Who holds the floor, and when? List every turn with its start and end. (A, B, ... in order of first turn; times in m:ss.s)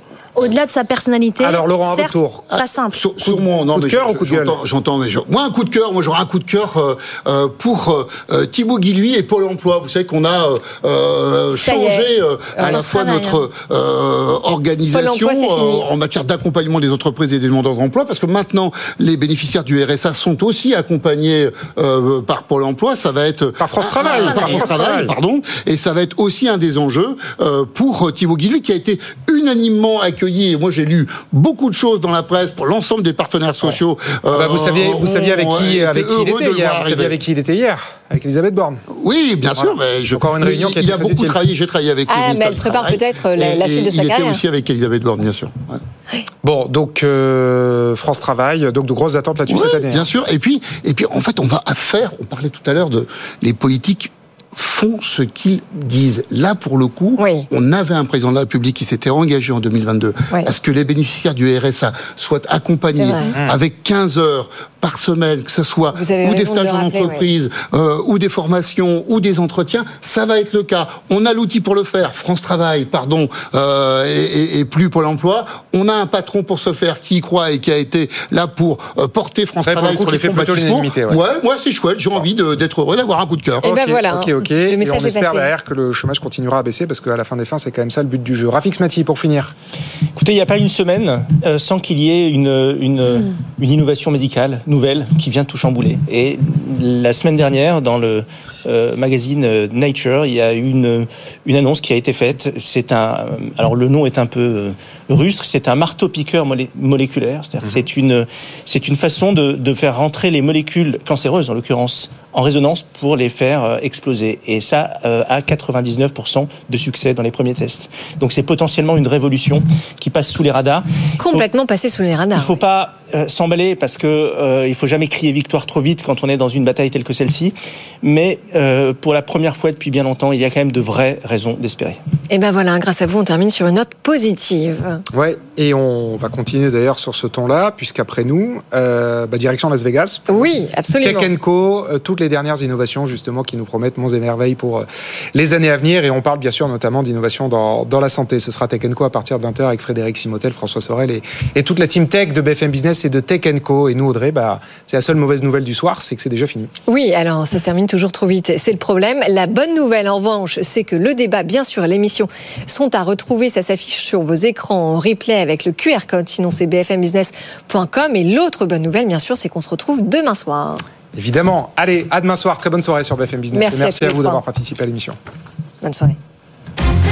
0:00.4-0:03.0 A
0:01.4-0:02.5 B
0:03.0-0:37.2 C
0:03.2-0:04.6 B
0:11.5-0:12.9 D
0:12.6-0:13.5 A
0:14.9-0:15.9 D
0:23.6-0:25.1 B
0:24.0-0:24.8 A
0:34.3-0:38.8 B
0:38.9-0:45.8 C
0:39.6-0:41.4 B
0:42.1-0:44.4 D
0:46.4-0:50.1 B
0:49.5-1:23.7 C
0:57.2-0:57.5 D
1:02.9-1:03.3 D
1:05.9-1:07.2 D
1:19.6-1:21.2 B
1:23.6-1:25.5 D
1:23.6-1:29.5 B
1:30.2-2:01.4 E
2:01.2-2:02.6 D
2:02.3-2:12.0 E
2:12.3-2:15.0 D
2:15.1-2:36.7 B
2:20.3-2:21.3 D
2:36.9-2:50.8 D
2:51.1-2:55.2 B
2:53.5-2:54.4 D
2:55.8-2:56.2 D